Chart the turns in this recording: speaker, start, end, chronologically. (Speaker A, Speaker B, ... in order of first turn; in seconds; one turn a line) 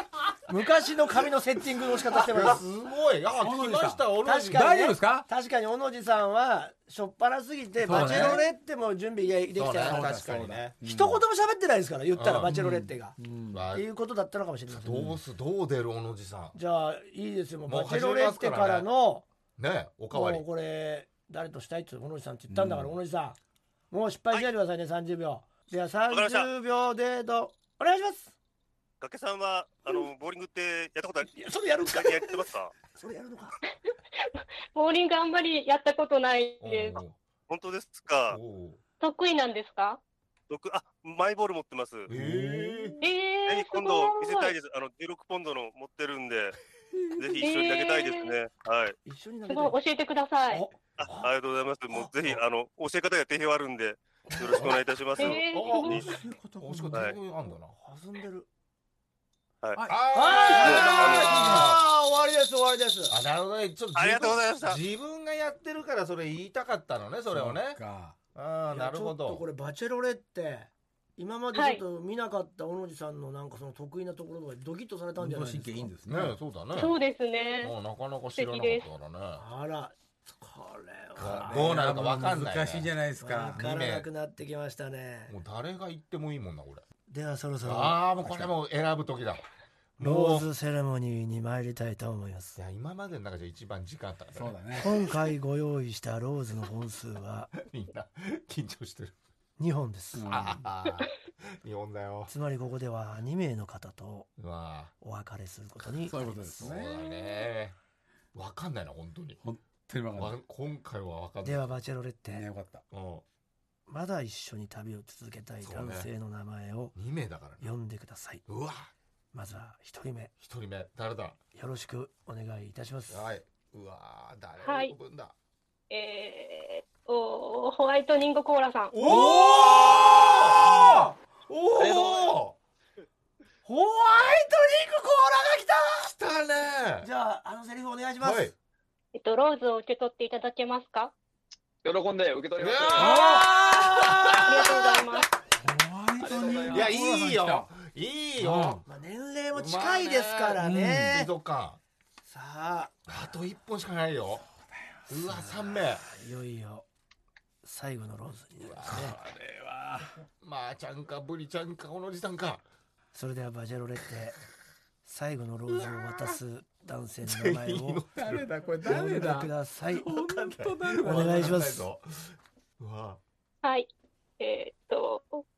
Speaker A: 0.5-2.6
Speaker B: 2.1-4.7
Speaker C: 3.4-5.2
Speaker A: 4.2-10.1
Speaker B: 7.8-8.4
Speaker C: 7.8-8.5
Speaker B: 9.5-10.7
Speaker C: 9.8-11.2
Speaker A: 10.8-13.2
Speaker B: 12.1-12.5
Speaker C: 12.4-13.6
Speaker B: 13.5-13.9
Speaker A: 13.7-15.1
Speaker B: 14.7-16.6
Speaker A: 16.5-19.2
Speaker B: 17.7-18.9
Speaker B: 19.6-20.4
Speaker A: 20.1-23.4
Speaker C: 22.5-22.9
Speaker A: 23.9-28.3
Speaker D: 26.1-26.5
Speaker D: 29.0-32.7
Speaker A: 31.3-33.6
Speaker E: 34.7-37.0
Speaker B: 36.6-37.1
Speaker D: 37.5-38.4
Speaker B: 38.3-38.8
Speaker E: 39.0-40.0
Speaker D: 40.5-42.1
Speaker B: 42.1-43.0
Speaker A: 42.1-43.0
Speaker E: 43.0-44.5
Speaker D: 43.5-46.5
Speaker D: 47.1-49.0
Speaker E: 47.4-48.3
Speaker A: 49.0-49.8
Speaker E: 49.5-50.6
Speaker A: 50.5-51.3
Speaker D: 51.0-56.1
Speaker B: 54.4-57.7
Speaker E: 55.2-56.0
Speaker C: 56.1-57.1
Speaker A: 57.7-58.5
Speaker C: 59.8-61.8
Speaker B: 59.9-61.8
Speaker A: 60.1-63.1
Speaker B: 63.1-67.8
Speaker D: 63.9-64.8
Speaker C: 67.3-68.1
Speaker B: 68.3-69.4
Speaker A: 68.7-75.9
Speaker E: 71.5-71.8
Speaker C: 75.2-76.3
Speaker B: 76.1-77.0
Speaker E: 76.7-77.7
Speaker B: 77.6-79.4
Speaker E: 78.3-78.8
Speaker A: 79.4-81.7
Speaker B: 81.2-82.9
Speaker C: 81.4-83.6
Speaker A: 83.2-85.3
Speaker B: 83.5-84.1
Speaker B: 85.3-86.8
Speaker A: 87.1-88.5
Speaker B: 87.6-89.4
Speaker B: 90.0-90.5
Speaker A: 90.0-92.6
Speaker B: 92.5-95.0
Speaker C: 94.3-94.8
Speaker A: 94.8-97.5
Speaker B: 97.5-99.1
Speaker A: 99.6-100.3
Speaker C: 100.2-100.6
Speaker B: 100.3-102.3
Speaker A: 102.3-104.3
Speaker B: 104.4-104.9
Speaker A: 105.0-106.5
Speaker C: 106.0-107.5
Speaker B: 106.6-107.8
Speaker B: 108.3-109.4
Speaker C: 109.4-110.3
Speaker B: 110.2-111.7
Speaker A: 111.4-112.4
Speaker C: 112.3-112.8
Speaker B: 112.9-113.2
Speaker A: 113.9-116.9
Speaker B: 115.6-116.1
Speaker B: 116.9-117.7
Speaker A: 117.6-118.4
Speaker B: 118.5-118.9
Speaker A: 119.3-120.3
Speaker B: 120.4-121.4
Speaker A: 121.5-123.2
Speaker B: 123.1-125.3
Speaker E: 124.6-124.9
Speaker E: 125.9-129.0
Speaker B: 128.9-132.6
Speaker A: 129.0-131.1
Speaker F: 131.8-132.3
Speaker A: 133.6-136.1
Speaker B: 136.0-137.1
Speaker A: 137.0-138.5
Speaker B: 138.2-138.5
Speaker E: 139.1-141.1
Speaker F: 141.8-143.2
Speaker B: 142.6-145.3
Speaker C: 143.0-143.5
Speaker E: 144.3-145.3
Speaker C: 145.6-147.7
Speaker F: 146.2-146.9
Speaker B: 146.7-148.8
Speaker C: 148.4-148.8
Speaker A: 148.8-151.3
Speaker B: 149.5-151.8
Speaker C: 150.6-151.1
Speaker A: 152.3-152.9
Speaker B: 153.1-154.4
Speaker B: 155.1-156.0
Speaker A: 156.0-156.8
Speaker A: 157.6-159.2
Speaker B: 158.6-159.2
Speaker C: 158.9-160.1
Speaker B: 160.4-162.6
Speaker A: 163.1-164.4
Speaker A: 165.0-168.0
Speaker B: 167.2-168.5
Speaker C: 168.2-171.6
Speaker A: 168.9-170.1
Speaker B: 170.1-173.2
Speaker A: 171.0-171.8
Speaker E: 173.6-173.9
Speaker E: 174.4-175.4